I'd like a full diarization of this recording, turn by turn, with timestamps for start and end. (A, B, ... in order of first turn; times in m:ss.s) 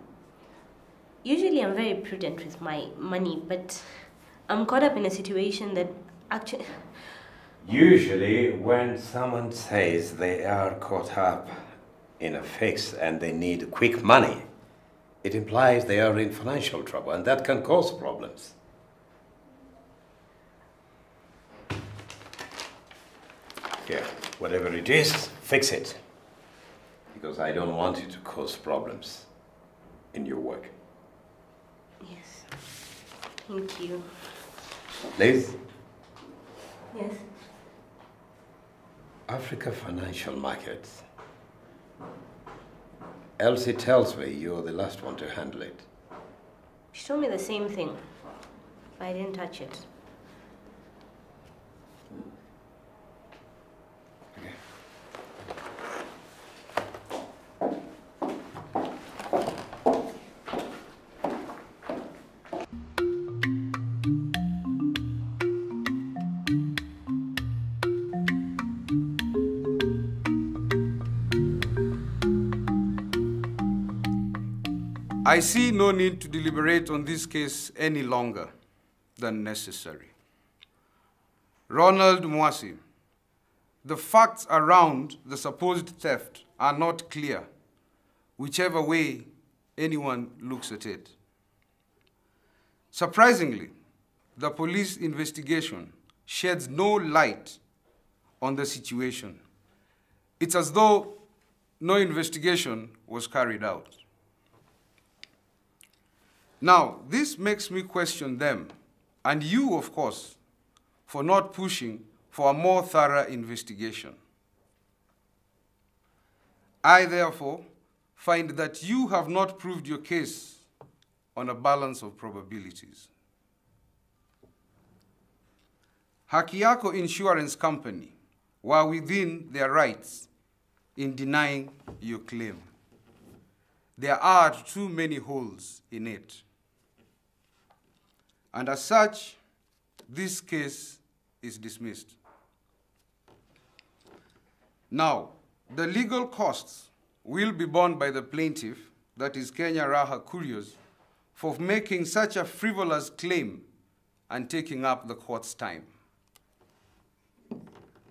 0:01.2-0:06.8 A
0:07.6-0:14.5 B
0:15.2-0:18.6 B
0:23.8-0:26.0 B
0:27.1-0:29.3 B
0:30.1-0:30.7 B
0:32.0-0:32.5 A
0:33.5-0:34.1 A
0:35.2-0:35.6 B
0:36.9-0:37.2 A
0:39.3-0:41.0 B
0:43.4-0:45.9 B
0:46.9-0:48.0 A
0:49.0-0:49.9 A
1:15.2-1:18.5 C
1:19.2-1:20.1 C
1:21.7-1:22.8 C
1:23.8-1:27.5 C
1:28.4-1:31.2 C
1:32.9-1:33.7 C
1:34.4-1:37.6 C
1:38.4-1:39.4 C
1:40.4-1:41.2 C
1:41.8-1:44.0 C
1:46.6-1:50.4 C
1:51.1-1:54.2 C
1:56.8-2:00.7 C
2:01.4-2:03.1 C
2:06.3-2:10.3 C
2:11.0-2:12.7 C
2:14.0-2:16.4 C
2:18.5-2:19.4 C
2:20.1-2:22.2 C
2:24.9-2:30.8 C
2:31.4-2:33.7 C
2:34.3-2:35.9 C